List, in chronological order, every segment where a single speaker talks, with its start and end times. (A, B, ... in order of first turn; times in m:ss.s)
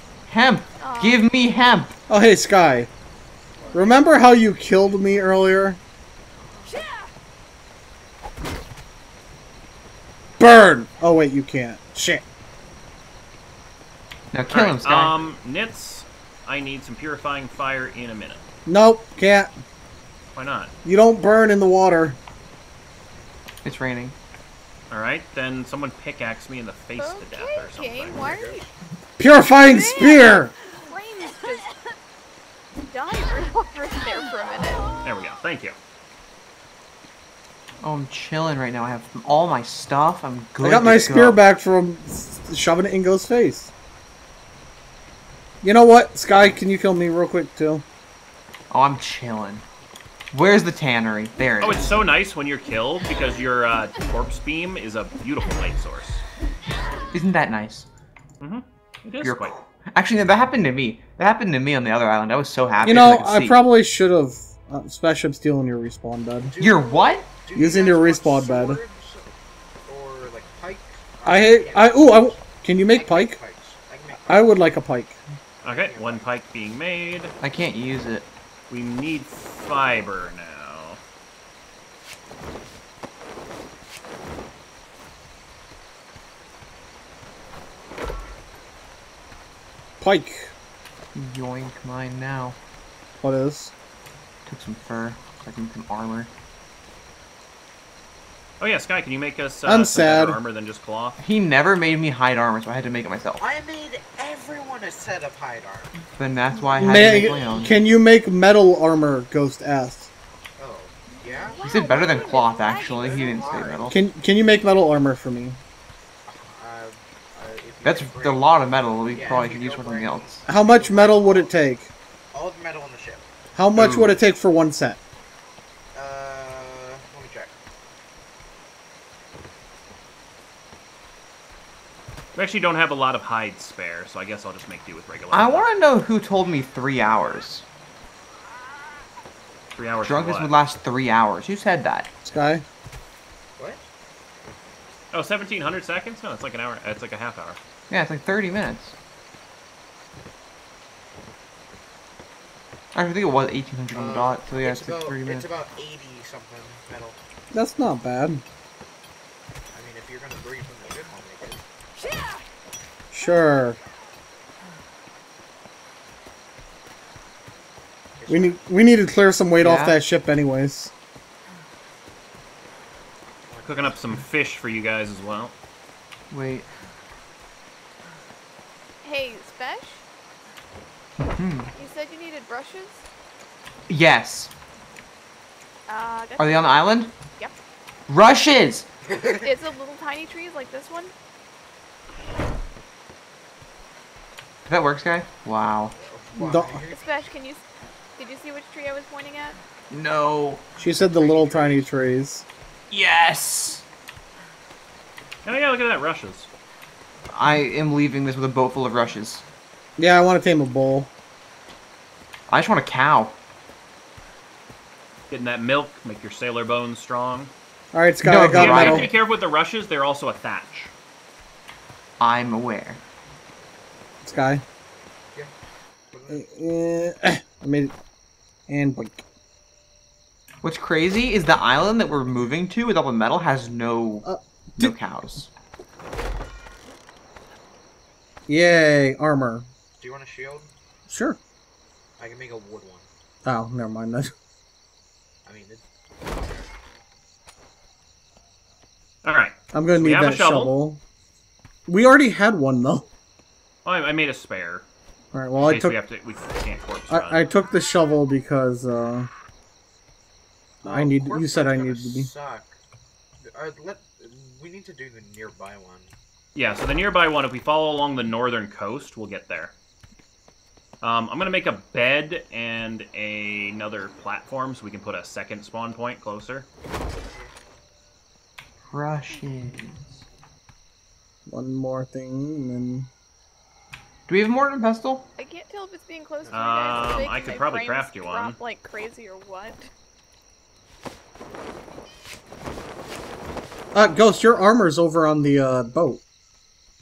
0:00.3-0:02.0 A
0:00.8-0:01.2 B
0:02.1-0:02.9 C
0:03.6-0:03.9 D
0:03.7-0:03.9 B
0:03.7-0:05.8 C
0:06.4-0:06.8 D
0:10.4-0:12.2 C
0:14.3-0:15.1 A
0:14.5-0:18.4 E
0:18.6-0:19.5 C
0:20.3-0:20.7 E
0:20.8-0:22.2 C
0:23.6-0:24.1 A
0:24.9-0:28.2 E
0:27.0-0:28.6 B
0:28.0-0:28.8 D
0:29.2-0:30.5 C
0:29.6-0:31.9 B
0:32.9-0:35.0 B
0:35.0-0:35.8 E
0:37.8-0:41.4 A
0:40.6-0:43.7 C
0:45.6-0:47.8 C
0:48.7-0:49.6 A
0:50.3-0:52.0 A
0:51.6-0:56.2 E
0:57.1-0:57.9 A
0:58.4-0:59.6 E
0:59.2-1:03.6 A
1:02.8-1:06.6 C
1:06.4-1:09.3 D
1:06.6-1:07.3 A
1:07.5-1:08.8 C
1:09.9-1:14.6 D
1:11.2-1:13.4 C
1:14.3-1:15.2 C
1:15.6-1:17.3 E
1:15.6-1:16.3 D
1:17.4-1:18.3 A
1:18.7-1:21.0 E
1:30.0-1:30.5 C
1:31.1-1:32.6 A
1:33.2-1:33.7 C
1:34.4-1:36.3 A
1:38.6-1:41.2 E
1:39.6-1:40.4 C
1:41.2-1:43.4 A
1:43.4-1:46.0 D
1:46.2-1:47.7 A
1:46.8-1:50.1 C
1:50.6-1:51.6 D
1:51.2-1:53.9 B
1:51.6-1:54.0 A
1:52.9-1:53.9 D
1:53.9-1:55.6 C
1:56.3-1:58.5 D
1:57.8-2:00.5 A
1:59.1-2:01.6 D
2:00.4-2:01.9 C
2:02.3-2:03.3 D
2:03.6-2:05.0 C
2:03.7-2:04.2 A
2:05.9-2:07.6 D
2:12.3-2:15.7 E
2:15.3-2:17.6 A
2:19.7-2:20.6 E
2:20.0-2:22.1 A
2:22.2-2:22.6 C
2:23.6-2:23.8 D
2:25.1-2:27.6 E
2:27.9-2:28.9 A
2:32.9-2:35.5 A
2:33.9-2:37.2 D
2:37.5-2:38.4 C
2:39.7-2:41.6 D
2:43.1-2:43.8 C
2:48.2-2:48.6 D
2:48.3-2:50.9 C
2:49.6-2:50.0 A
2:53.5-2:54.0 D
2:53.6-2:55.5 E
2:56.3-2:56.6 A
2:59.0-3:00.0 B
3:01.2-3:01.7 A
3:01.7-3:03.0 B
3:03.9-3:04.5 A
3:05.9-3:07.5 B
3:06.4-3:07.1 A
3:08.1-3:08.9 A
3:09.0-3:09.5 D
3:09.4-3:11.1 B
3:14.7-3:15.9 A
3:16.0-3:17.0 D
3:16.4-3:16.8 C
3:16.9-3:17.6 B
3:18.2-3:19.6 B
3:19.9-3:20.8 A
3:20.8-3:22.4 C
3:20.8-3:21.9 D
3:22.9-3:23.8 A
3:25.4-3:26.5 E
3:27.3-3:29.4 A
3:30.0-3:31.1 C
3:32.5-3:33.3 A
3:35.3-3:37.5 E
3:37.9-3:39.1 C
3:38.2-3:39.1 A
3:38.5-3:40.9 E
3:42.2-3:43.0 A
3:44.2-3:44.6 C
3:46.1-3:46.4 D
3:46.3-3:47.9 C
3:48.7-3:49.2 C
3:50.6-3:55.5 A
3:54.2-3:54.9 C
3:58.5-3:59.7 C
4:00.0-4:00.7 D
4:01.1-4:01.4 C
4:02.2-4:03.1 D
4:03.4-4:04.3 C
4:05.4-4:06.7 D
4:09.2-4:10.7 E
4:09.7-4:11.0 C
4:11.9-4:13.1 C
4:13.8-4:14.8 E
4:15.3-4:16.0 C
4:15.6-4:17.4 E
4:17.1-4:19.3 C
4:20.8-4:22.3 C
4:20.8-4:22.8 D
4:23.4-4:26.1 D
4:26.6-4:29.7 E
4:31.0-4:36.7 E
4:37.2-4:37.5 D
4:38.9-4:40.3 A
4:41.5-4:43.1 C
4:44.3-4:45.3 A
4:45.4-4:49.9 B
4:46.4-4:47.3 D
4:46.5-4:48.6 E
4:53.9-4:56.2 C